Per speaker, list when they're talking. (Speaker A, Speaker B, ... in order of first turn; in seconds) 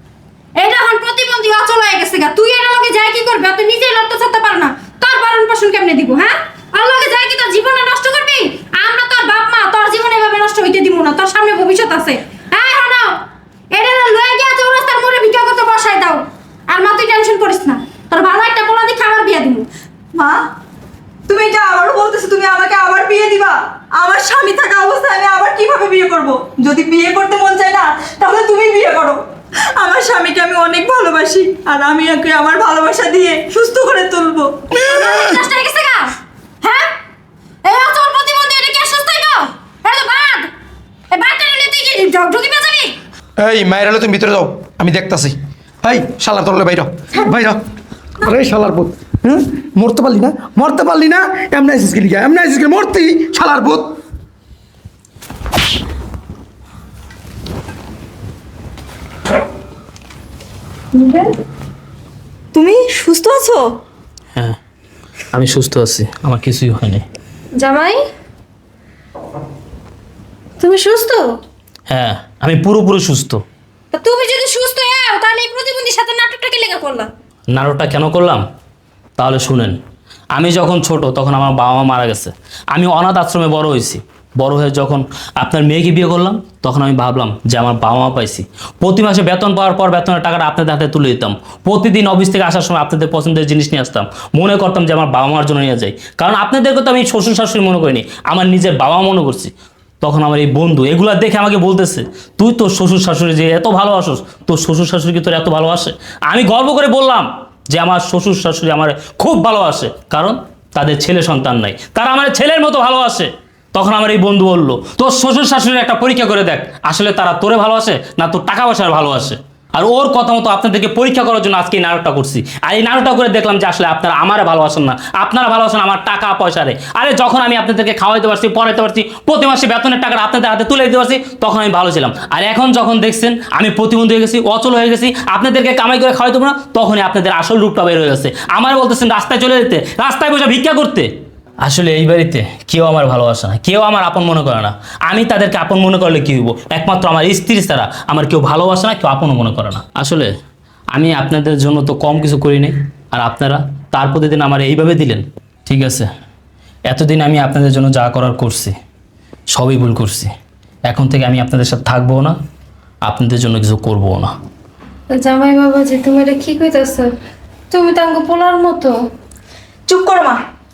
Speaker A: 0.6-19.7, 34.8-36.9, 37.6-40.5, 41.1-43.0, 67.6-68.0, 70.6-71.3, 73.9-77.1, 165.2-167.1, 167.7-169.0
Speaker B: 21.3-29.2, 29.8-34.6, 62.5-63.8, 169.9-170.4
Speaker C: 35.1-35.4, 43.4-47.6, 48.2-54.0
Speaker D: 65.3-67.0, 71.9-73.4, 77.5-78.4, 79.2-79.8, 80.4-141.1, 141.6-150.3, 150.9-156.1, 156.9-158.8, 159.5-160.3, 160.9-162.4, 163.1-164.3